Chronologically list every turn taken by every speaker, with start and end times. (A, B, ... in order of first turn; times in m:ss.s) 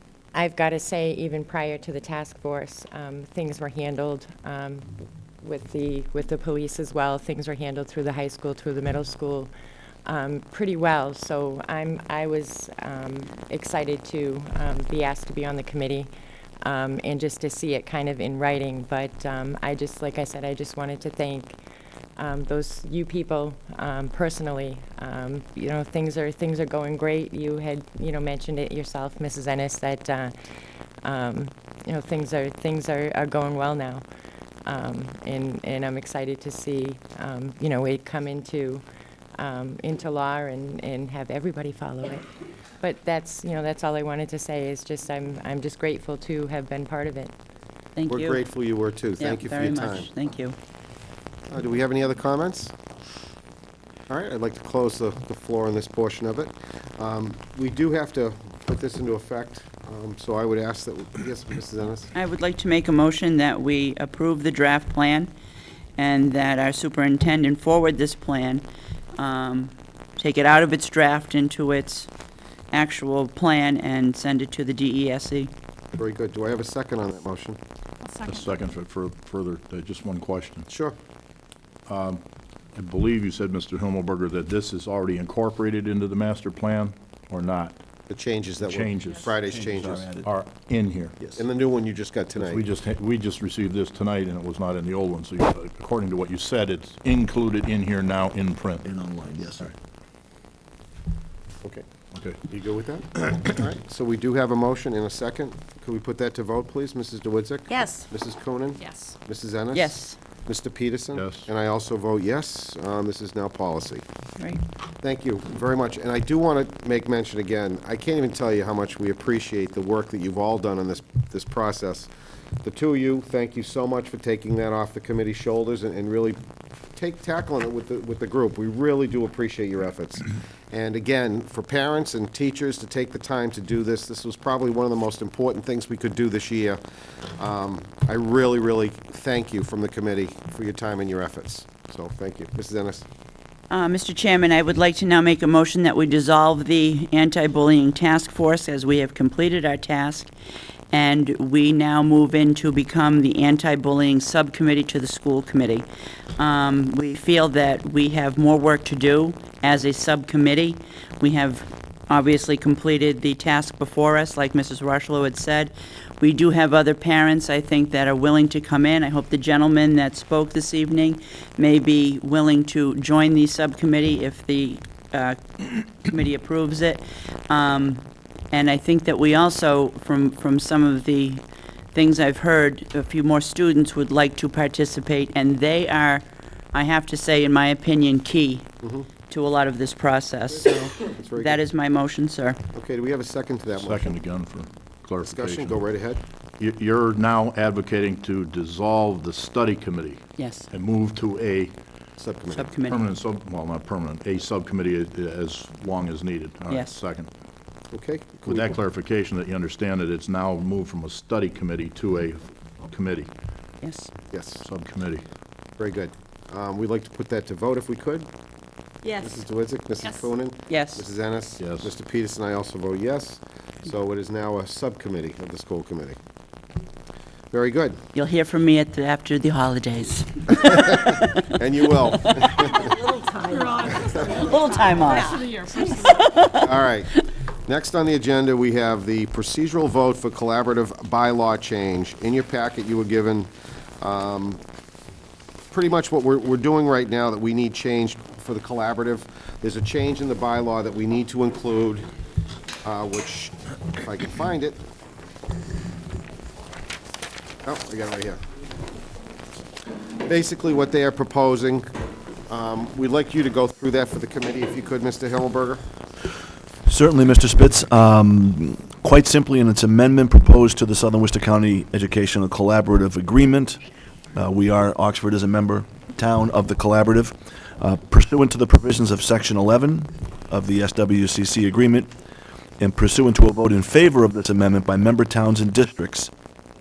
0:00.3-0:09.5 A
0:10.0-0:16.1 A
0:16.6-0:21.6 A
0:22.2-0:30.3 A
0:31.0-0:34.0 A
0:34.6-0:38.8 A
0:39.4-0:42.3 A
0:42.8-0:47.3 A
0:48.0-0:48.4 B
0:48.1-0:50.1 C
0:49.2-0:50.6 B
0:51.5-0:52.7 C
0:54.1-1:02.1 C
1:02.1-1:05.3 B
1:06.0-1:12.1 B
1:12.7-1:15.5 B
1:15.9-1:17.6 C
1:18.0-1:18.5 D
1:18.2-1:20.6 E
1:20.7-1:21.0 C
1:21.9-1:22.2 E
1:22.7-1:27.8 E
1:28.1-1:30.1 C
1:28.6-1:29.3 E
1:29.4-1:30.3 F
1:30.1-1:31.4 E
1:31.3-1:32.6 C
1:32.4-1:38.9 E
1:38.8-1:39.7 F
1:42.1-1:42.5 E
1:42.5-1:54.0 C
1:43.2-1:43.5 E
1:47.7-1:48.0 D
1:49.7-1:50.2 B
1:51.1-1:51.5 E
1:55.0-2:02.1 C
2:02.6-2:06.4 C
2:07.0-2:16.8 C
2:17.3-2:23.0 C
2:23.7-2:30.3 B
2:30.9-3:01.4 B
3:01.9-3:08.7 B
3:08.8-3:09.1 C
3:09.3-3:12.6 B
3:11.0-3:11.6 C
3:12.7-3:14.2 C
3:13.7-3:15.8 E
3:15.2-3:16.2 C
3:16.6-3:21.7 E
3:20.4-3:20.6 B
3:22.2-3:22.7 C
3:22.5-3:23.0 B
3:22.8-3:27.3 E
3:26.7-3:27.0 B
3:27.9-3:28.7 C
3:28.4-3:33.3 E
3:33.8-3:34.1 B
3:34.3-3:34.6 C
3:34.6-3:35.2 E
3:35.8-3:38.3 C
3:39.0-3:39.4 D
3:39.1-3:46.2 C
3:40.0-3:40.3 D
3:40.7-3:41.0 B
3:41.6-3:41.9 E
3:47.5-3:48.0 C
3:48.1-3:51.4 B
3:50.5-3:53.0 C
3:52.3-3:52.8 B
3:52.8-3:56.3 D
3:53.9-3:54.2 C
3:54.0-3:56.7 B
3:56.6-3:57.1 C
3:57.7-4:03.5 C
4:04.0-4:04.6 C
4:05.7-4:12.0 C
4:12.8-4:14.8 C
4:17.6-4:18.4 C
4:20.2-4:21.9 C
4:22.5-4:25.8 C
4:26.9-4:33.8 F
4:34.3-4:42.1 F
4:42.8-4:46.3 F